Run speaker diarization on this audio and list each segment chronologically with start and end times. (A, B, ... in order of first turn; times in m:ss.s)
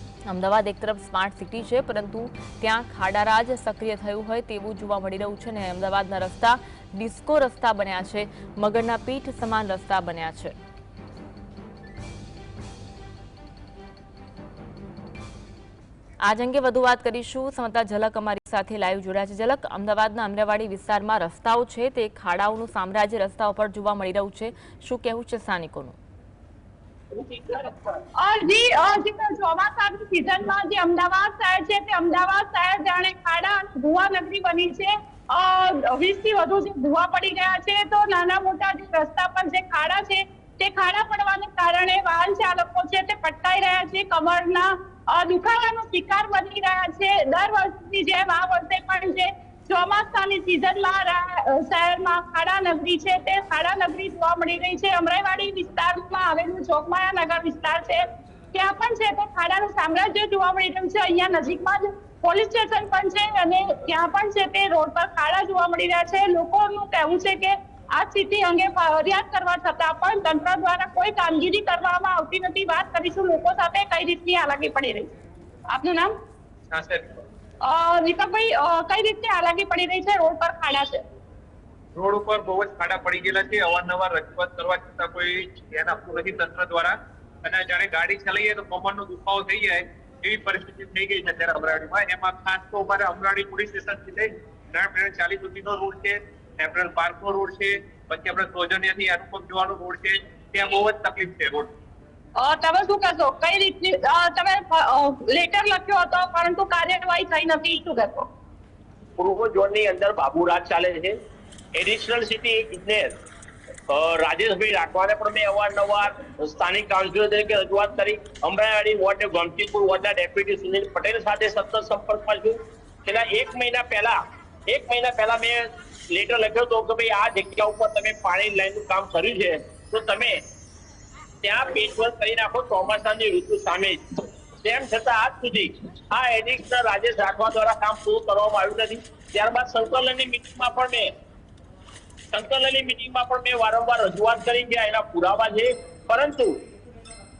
0:00.3-0:10.5 A
0:16.2-0:26.0 A
0:27.5-0:58.0 B
0:58.5-1:15.1 B
1:15.7-1:16.1 B
1:16.7-1:17.2 C
1:17.6-1:21.0 B
1:22.0-1:41.7 C
1:42.4-1:48.3 B
1:49.2-1:51.2 D
1:51.7-1:53.2 D
1:53.9-2:10.4 D
2:11.4-2:21.1 D
2:22.3-2:26.6 D